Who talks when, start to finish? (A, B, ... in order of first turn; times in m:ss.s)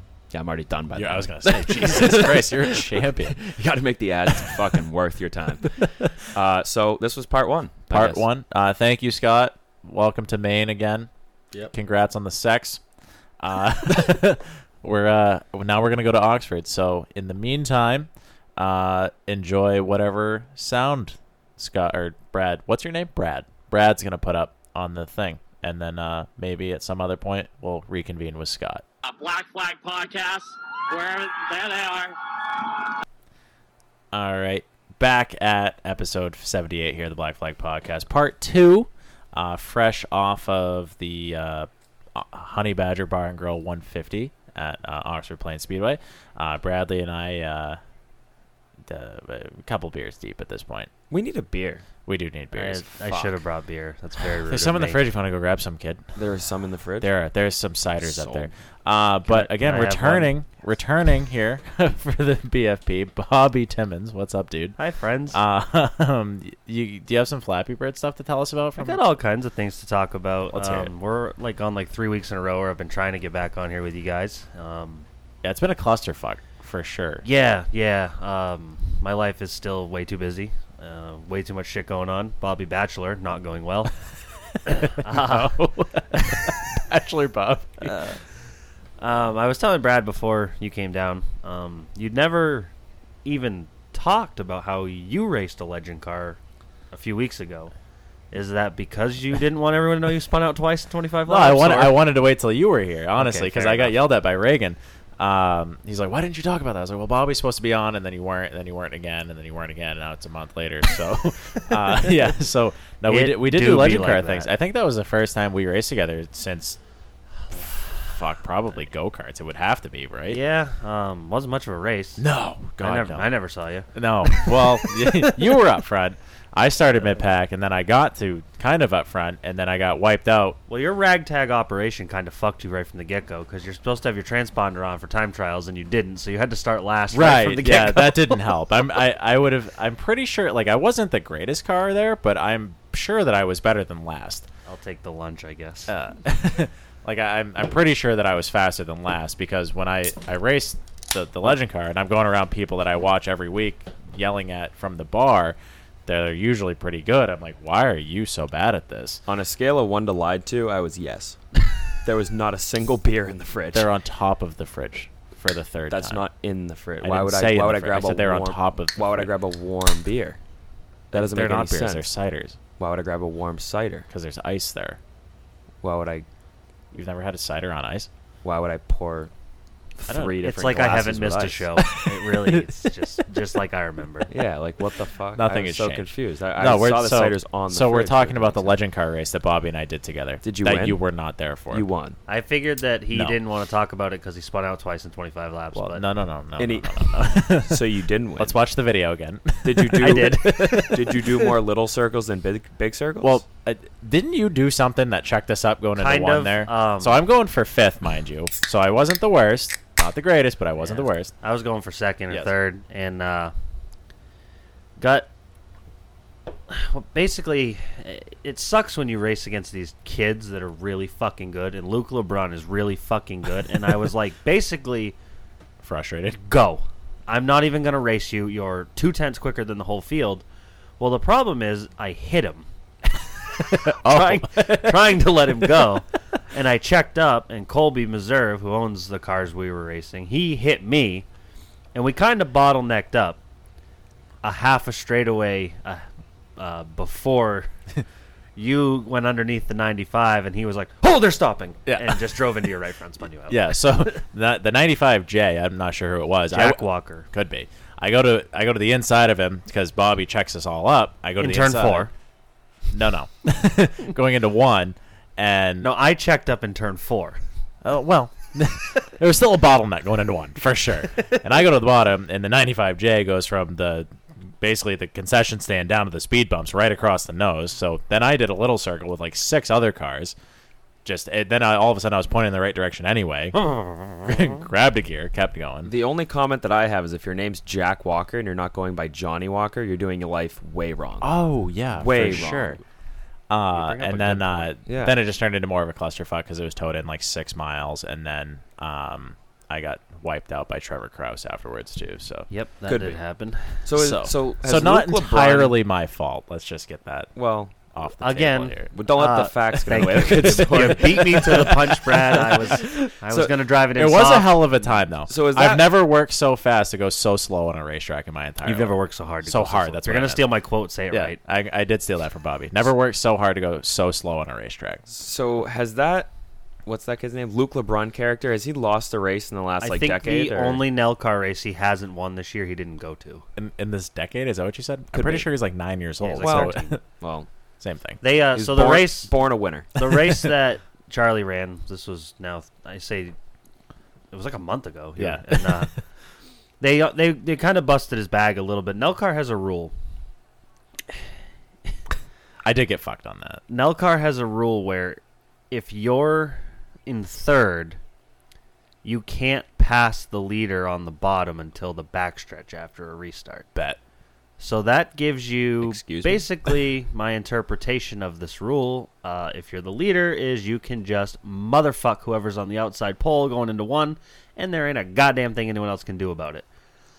0:00.3-0:08.2 A
0:01.0-0:03.4 B
0:04.4-0:04.6 B
0:07.9-0:11.1 B
0:11.7-0:12.8 B
0:13.4-0:28.8 B
0:29.1-0:32.1 C
0:34.1-0:47.8 B
0:48.9-0:50.9 B
0:51.1-0:51.8 A
0:52.1-0:52.9 B
0:52.6-0:53.4 A
0:52.6-0:55.0 D
0:54.4-0:56.0 B
0:56.2-0:57.1 A
0:57.0-1:04.8 B
0:58.0-0:58.5 A
0:59.2-1:00.4 D
1:04.8-1:05.4 D
1:05.3-1:09.0 B
1:08.8-1:15.1 D
1:10.5-1:10.9 B
1:15.4-1:17.3 B
1:17.2-1:23.9 D
1:24.5-1:28.2 B
1:24.7-1:25.6 D
1:27.8-1:28.2 D
1:29.0-1:32.7 D
1:33.2-1:36.4 D
1:36.9-1:37.7 D
1:38.3-1:42.1 D
1:41.3-1:56.8 B
1:43.2-1:44.0 D
1:53.1-1:54.5 D
1:57.5-2:00.4 B
2:00.3-2:02.2 D
2:02.2-2:03.3 B
2:02.8-2:04.6 D
2:03.9-2:10.6 B
2:10.7-2:18.2 D
2:17.1-2:24.5 B
2:24.7-2:25.9 D
2:25.9-2:39.2 B
2:39.3-2:43.9 A
2:43.7-2:46.2 B
2:45.9-2:50.4 A
2:47.0-2:49.3 B
2:51.1-2:52.1 A
2:51.1-2:52.6 B
2:52.8-2:54.1 A
2:54.1-2:55.0 B
2:55.8-2:56.3 A
2:56.9-2:58.1 B
2:58.4-2:59.3 A
3:00.0-3:01.7 A
3:00.1-3:00.4 B
3:00.4-3:04.3 D
3:01.8-3:03.1 B
3:04.3-3:08.8 A
3:05.4-3:11.8 B
3:10.4-3:11.0 A
3:11.7-3:12.2 A
3:12.3-3:16.1 D
3:13.1-3:13.4 B
3:15.7-3:17.9 B
3:16.6-3:18.6 A
3:18.4-3:21.5 B
3:19.6-3:23.4 A
3:20.0-3:21.0 D
3:23.2-3:31.3 B
3:26.0-3:27.2 D
3:30.8-3:33.5 D
3:32.3-3:32.5 B
3:35.0-3:35.3 D
3:36.7-3:45.2 D
3:45.8-3:46.4 B
3:46.4-3:50.4 D
3:51.0-3:52.7 D
3:53.6-3:56.0 B
3:53.9-4:01.3 D
4:01.9-4:03.4 D
4:04.4-4:06.0 D
4:06.6-4:07.7 D
4:08.6-4:14.0 D
4:11.9-4:12.5 B
4:13.5-4:22.1 B
4:16.5-4:17.3 D
4:21.4-4:22.1 D
4:22.9-4:25.9 B
4:25.8-4:27.4 D
4:27.8-4:40.4 B
4:41.0-4:45.9 B
4:43.7-4:44.4 D
4:45.8-4:51.3 A
4:51.2-4:52.8 B
4:52.0-4:52.8 A
4:53.5-5:02.5 B
4:53.7-4:54.7 D
4:54.9-4:55.2 A
5:02.5-5:03.8 D
5:02.8-5:03.2 A
5:03.8-5:05.8 A
5:03.9-5:07.3 B
5:07.4-5:07.7 A
5:07.9-5:08.9 B
5:08.2-5:14.8 D
5:08.9-5:13.6 A
5:09.9-5:13.1 B
5:14.0-5:20.5 B
5:14.8-5:15.9 A
5:18.6-5:21.4 D
5:21.1-5:25.0 B
5:25.1-5:26.3 A
5:26.9-5:30.8 A
5:29.8-5:33.4 D
5:33.6-5:37.0 B
5:35.1-5:35.5 A
5:36.2-5:37.0 D
5:36.4-5:37.5 A
5:37.8-5:38.2 B
5:38.2-5:39.4 D
5:38.5-5:40.2 A
5:39.9-5:43.4 D
5:44.3-5:45.9 D
5:45.2-5:45.9 B
5:46.8-5:49.9 D
5:52.6-5:53.6 B
5:53.7-5:58.0 D
5:59.0-6:03.7 D
6:04.6-6:16.7 D
6:05.8-6:06.8 A